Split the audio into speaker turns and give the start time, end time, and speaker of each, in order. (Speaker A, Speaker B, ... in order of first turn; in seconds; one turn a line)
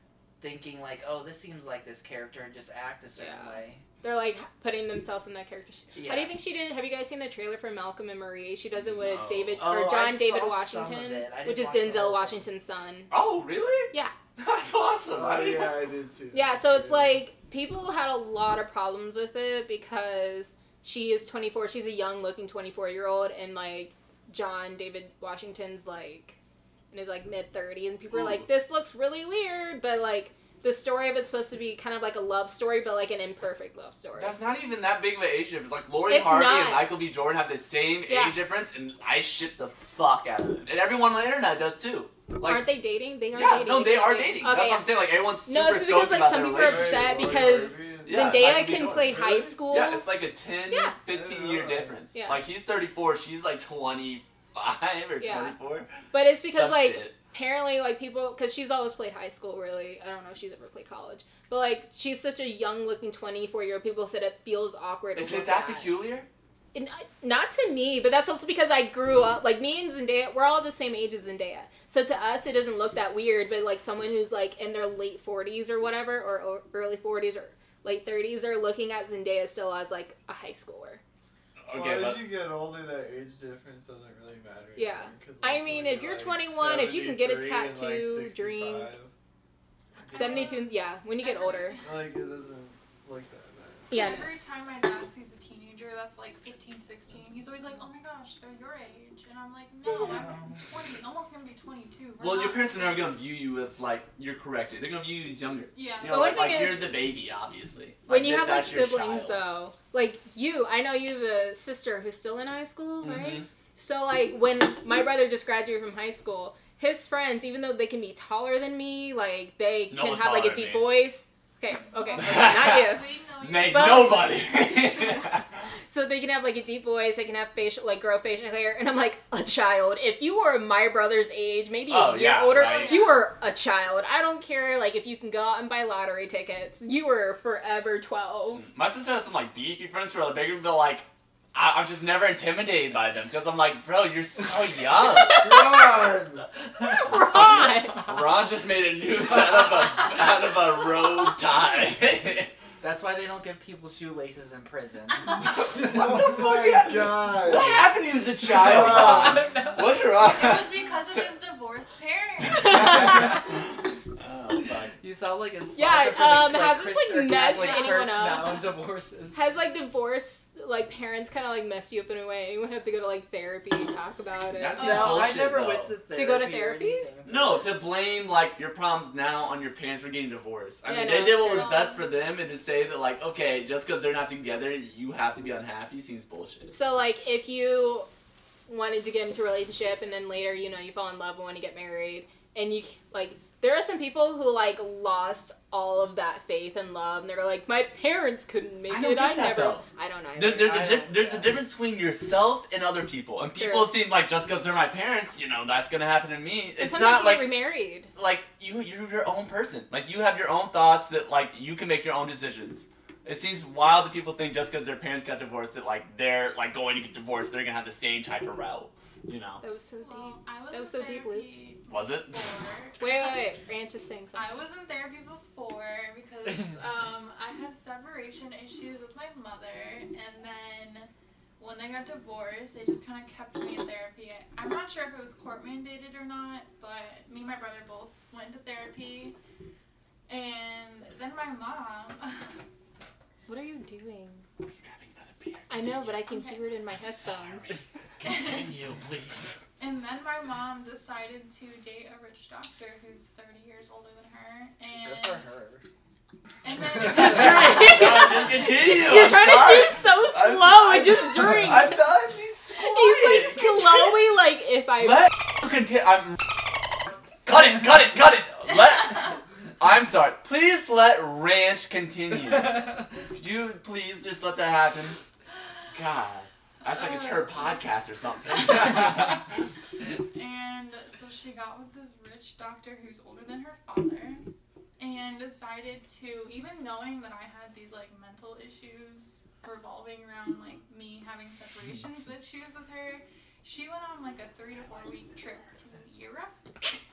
Speaker A: 0.4-3.8
Speaker B: 3.2-13.1
Speaker A: 5.9-6.3
Speaker C: 8.8-9.6
Speaker A: 9.6-12.4
Speaker C: 13.1-15.8
Speaker D: 15.1-17.2
Speaker B: 16.3-26.4
Speaker B: 26.9-34.3
Speaker C: 28.1-28.4
Speaker C: 34.2-42.7
Speaker B: 36.1-36.9
Speaker B: 38.0-38.4
Speaker B: 42.4-50.1
Speaker C: 43.3-57.1
Speaker D: 46.6-49.6
Speaker D: 51.1-52.0
Speaker B: 52.1-52.4
Speaker B: 55.2-55.5
Speaker B: 56.1-65.9
Speaker C: 65.1-66.3
Speaker B: 66.7-81.0
Speaker C: 81.6-82.3
Speaker D: 81.7-89.1
Speaker B: 84.8-88.9
Speaker E: 90.0-92.0
Speaker B: 90.1-91.8
Speaker D: 91.8-93.9
Speaker B: 93.9-94.3
Speaker E: 93.9-103.1
Speaker A: 99.9-100.4
Speaker C: 102.2-109.4
Speaker E: 105.7-106.9
Speaker B: 106.0-106.9
Speaker B: 108.1-123.1
Speaker C: 113.0-113.5
Speaker C: 119.9-120.9
Speaker E: 121.9-124.7
Speaker C: 122.2-125.5
Speaker B: 123.7-125.4
Speaker B: 125.9-138.6
Speaker C: 131.9-133.0
Speaker E: 132.6-133.2
Speaker C: 138.5-145.4
Speaker B: 145.2-146.0
Speaker D: 145.2-146.5
Speaker B: 146.8-148.2
Speaker C: 147.1-152.5
Speaker A: 152.8-155.4
Speaker C: 155.4-160.8
Speaker D: 155.7-157.9
Speaker D: 158.4-159.5
Speaker A: 158.8-159.8
Speaker E: 160.2-163.4
Speaker C: 162.5-164.9
Speaker B: 162.6-163.2
Speaker A: 165.0-169.4
Speaker B: 165.7-168.7
Speaker E: 167.5-168.0
Speaker B: 169.3-175.2
Speaker C: 174.5-175.9
Speaker A: 174.8-177.7
Speaker E: 174.8-175.2
Speaker B: 176.1-177.1
Speaker C: 177.2-186.7
Speaker B: 180.8-181.7
Speaker E: 181.4-182.1
Speaker B: 186.7-188.1
Speaker B: 188.7-200.9
Speaker C: 198.9-199.8
Speaker C: 200.3-207.5
Speaker A: 200.7-201.5
Speaker B: 203.5-203.9
Speaker B: 206.8-208.1
Speaker C: 208.1-219.6
Speaker B: 219.6-221.5
Speaker E: 220.0-223.5
Speaker C: 221.9-222.5
Speaker B: 223.0-224.5
Speaker E: 224.3-239.3
Speaker E: 240.3-242.6
Speaker B: 243.5-244.4
Speaker C: 244.8-246.2
Speaker B: 245.7-247.8
Speaker E: 246.3-246.6
Speaker C: 246.9-249.6
Speaker E: 248.2-248.7
Speaker E: 249.8-255.5
Speaker A: 254.9-255.8
Speaker E: 256.6-258.5
Speaker B: 257.0-262.0
Speaker C: 257.1-264.2
Speaker B: 262.8-265.3
Speaker C: 265.0-275.2
Speaker C: 275.9-279.7
Speaker E: 276.8-277.8
Speaker E: 280.3-284.4
Speaker E: 285.0-296.6